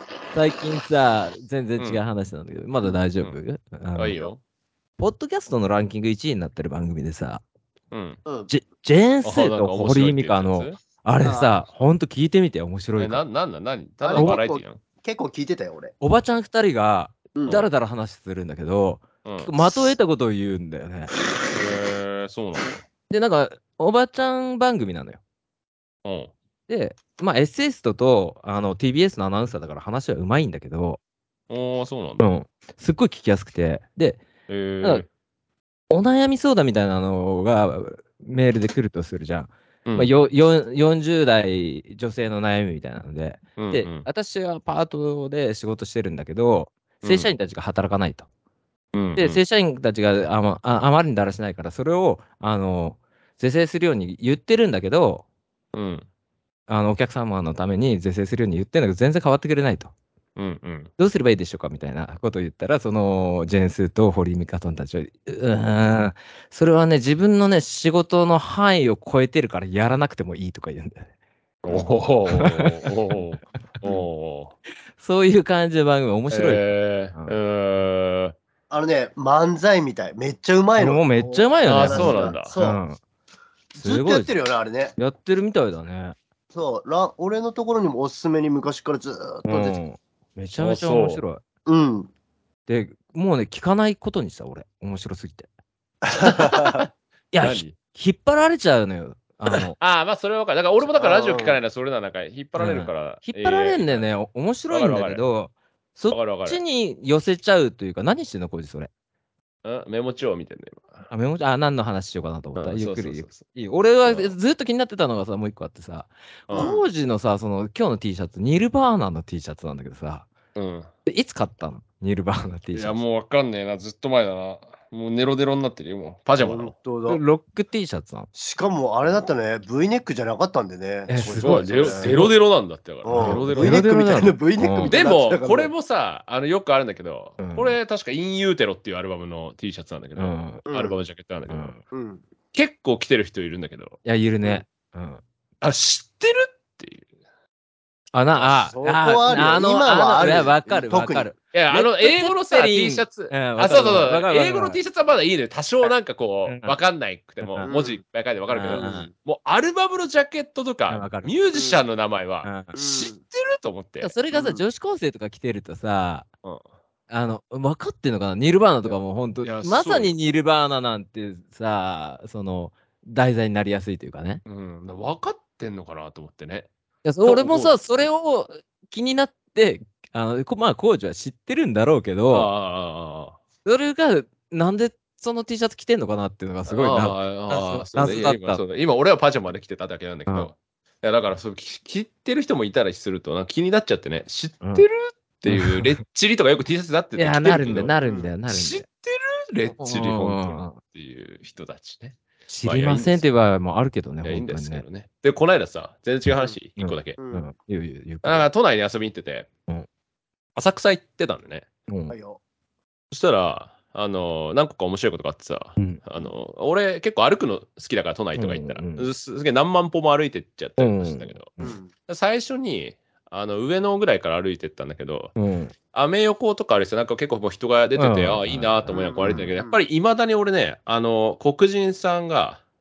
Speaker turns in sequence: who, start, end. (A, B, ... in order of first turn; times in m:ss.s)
0:00.3-0:04.2 A
0:01.8-0:02.0 B
0:04.0-0:04.4 B
0:05.0-0:07.4 A
0:07.9-0:08.2 B
0:08.5-0:13.2 A
0:09.2-0:10.8 B
0:11.2-0:11.5 C
0:13.0-0:14.8 B
0:14.0-0:15.9 C
0:14.2-0:14.4 A
0:16.0-0:21.1 A
0:17.4-0:17.7 C
0:19.2-0:19.5 B
0:21.5-0:22.7 B
0:23.1-0:25.2 A
0:26.0-0:26.3 B
0:26.7-0:31.0 A
0:31.5-0:32.3 B
0:32.2-0:34.2 A
0:34.5-0:35.1 B
0:35.9-0:48.3 A
0:39.9-0:40.1 B
0:43.6-0:44.1 B
0:47.0-0:47.3 B
0:48.9-0:49.4 B
0:49.2-0:55.2 A
0:55.7-0:56.1 B
0:56.7-0:59.9 A
1:00.4-1:00.9 B
1:01.0-1:11.1 A
1:11.6-1:14.6 B
1:11.7-1:12.9 A
1:15.0-1:17.4 A
1:16.3-1:18.4 B
1:18.7-1:22.8 C
1:20.8-1:23.0 A
1:21.6-1:22.6 B
1:23.7-1:25.0 C
1:23.8-1:24.3 A
1:25.0-1:26.2 A
1:26.5-1:29.8 C
1:29.5-1:31.4 A
1:30.5-1:31.2 B
1:31.7-1:32.1 C
1:32.7-1:35.5 A
1:36.0-1:36.8 C
1:36.2-1:36.9 B
1:37.3-1:39.8 A
1:37.4-1:37.8 B
1:39.8-1:44.1 B
1:41.0-1:41.6 C
1:42.6-1:48.9 A
1:44.7-1:45.2 B
1:46.1-1:46.6 B
1:49.6-1:51.1 B
1:51.1-2:00.3 A
1:52.6-1:53.4 B
1:54.0-1:54.4 B
1:56.5-1:56.8 B
1:56.5-1:56.8 C
2:00.6-2:00.9 B
2:01.1-2:03.0 A
2:02.7-2:06.7 B
2:06.4-2:07.2 C
2:07.1-2:08.3 A
2:08.3-2:12.2 C
2:11.1-2:12.4 A
2:11.3-2:13.8 B
2:13.0-2:15.7 C
2:13.1-2:15.0 A
2:14.9-2:21.7 B
2:17.4-2:17.8 A
2:20.2-2:20.6 A
2:20.7-2:21.0 C
2:21.5-2:21.8 A
2:21.9-2:22.2 C
2:22.5-2:24.0 B
2:24.0-2:25.2 A
2:25.6-2:27.1 B
2:28.1-2:34.8 A
2:28.5-2:31.3 C
2:31.5-2:44.1 B
2:36.5-2:36.8 A
2:37.4-2:37.7 A
2:37.6-2:38.0 C
2:38.5-2:39.1 A
2:38.7-2:39.1 C
2:40.9-2:41.3 A
2:41.5-2:41.8 C
2:42.4-2:42.7 A
2:42.7-2:43.2 C
2:44.0-2:46.3 A
2:44.3-2:44.6 C
2:47.1-2:54.4 A
2:48.8-2:50.2 B
2:54.4-2:56.7 B
2:57.0-3:02.5 A
2:57.2-2:57.8 B
3:02.3-3:03.4 B
3:03.6-3:08.6 A
3:06.7-3:23.3 B
3:15.5-3:16.0 A
3:17.2-3:18.8 A
3:18.0-3:18.3 C
3:19.8-3:20.8 A
3:22.5-3:24.8 A
3:24.2-3:27.2 B
3:26.8-3:28.5 A
3:27.2-3:27.5 C
3:28.2-3:29.5 B
3:30.6-3:31.6 B
3:31.9-3:32.1 A
3:32.1-3:32.4 C
3:33.1-3:41.5 B
3:38.4-3:39.1 A
3:40.8-3:41.7 A
3:41.6-3:41.9 C
3:42.1-3:45.4 B
3:45.4-3:45.7 A
3:45.9-3:52.6 B
3:48.0-3:49.5 A
3:48.9-3:49.8 C